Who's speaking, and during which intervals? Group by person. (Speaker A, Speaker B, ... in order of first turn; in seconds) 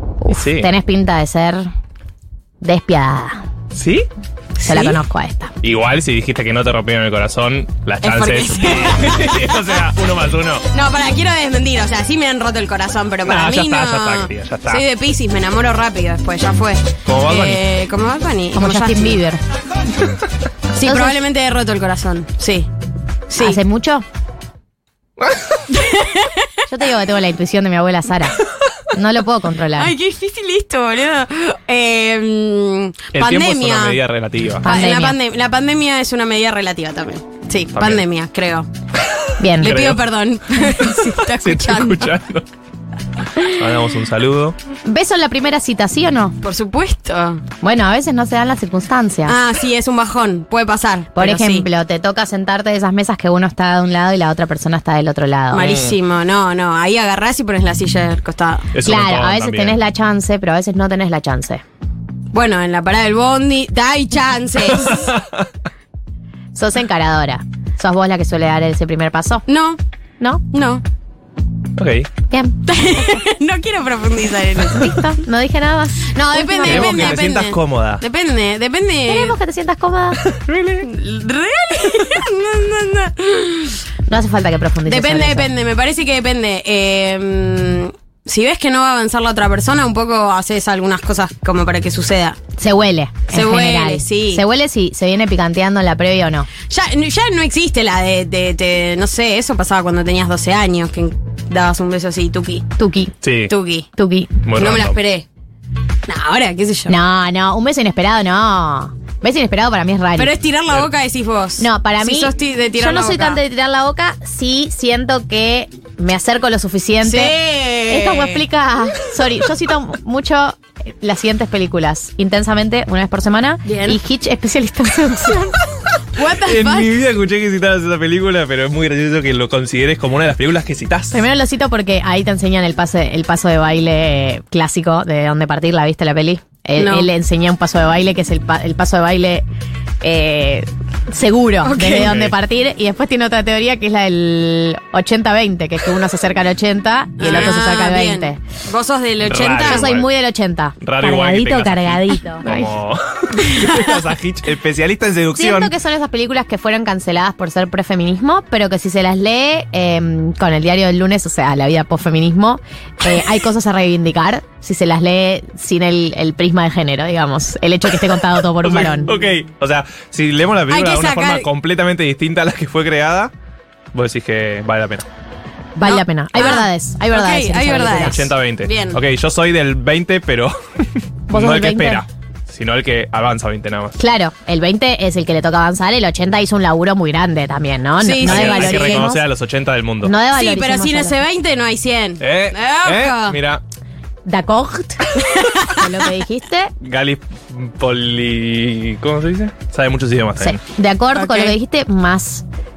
Speaker A: 0.2-1.7, 2.6-3.5, 4.7-5.5, 18.5-19.4, 20.8-21.2, 23.3-24.1, 26.7-29.9, 34.6-35.2, 39.4-39.8, 44.9-46.4, 47.6-49.4, 51.1-55.7, 58.8-61.6, 66.5-69.5, 72.3-72.6, 74.7-77.2, 79.1-80.2, 84.1-85.5, 92.6-96.5, 102.8-103.2, 104.0-104.4, 106.9-110.3, 111.6-117.3, 117.9-125.5, 131.1-139.4, 140.0-148.4, 149.6-152.7, 155.3-169.1, 175.8-178.3, 181.3-182.1, 184.0-189.2, 190.0-191.2, 194.3-195.1, 195.7-196.7, 200.4-202.4
Speaker B: 0.3-0.7, 3.7-4.1, 5.6-10.7, 13.2-14.8, 17.1-17.6, 25.2-25.5, 33.1-34.7, 37.8-38.0, 39.6-40.0, 41.2-42.5, 43.5-44.6, 55.6-55.9, 58.7-59.8, 64.9-65.4, 71.8-72.1, 76.6-78.0, 80.3-80.8, 103.2-103.5, 104.4-105.0, 126.3-131.2, 142.0-142.3, 149.2-150.1, 150.8-155.7, 168.6-173.3, 173.9-175.1, 177.9-184.0, 188.2-190.1, 192.2-193.6, 196.8-200.6
Speaker C: 4.6-5.0, 8.0-9.8, 10.7-19.2, 20.7-22.7, 23.3-23.6, 25.7-26.3, 29.8-34.0, 34.6-38.7, 39.6-42.1, 46.4-47.4, 49.3-51.7, 55.5-58.7, 62.3-65.0, 69.5-69.8, 70.5-70.8, 72.7-75.2, 76.2-79.4, 80.8-83.8, 84.9-92.4, 93.3-94.4, 96.7-102.7, 103.5-103.9, 104.6-105.3, 106.1-107.0, 110.2-113.4, 117.0-118.4, 123.7-124.0, 126.2-126.9, 136.8-137.1, 141.6-142.2, 147.2-149.9, 153.5-153.8, 170.7-171.5, 175.8-179.0, 188.0-189.1, 190.3-193.4, 195.2-195.9, 201.1-201.6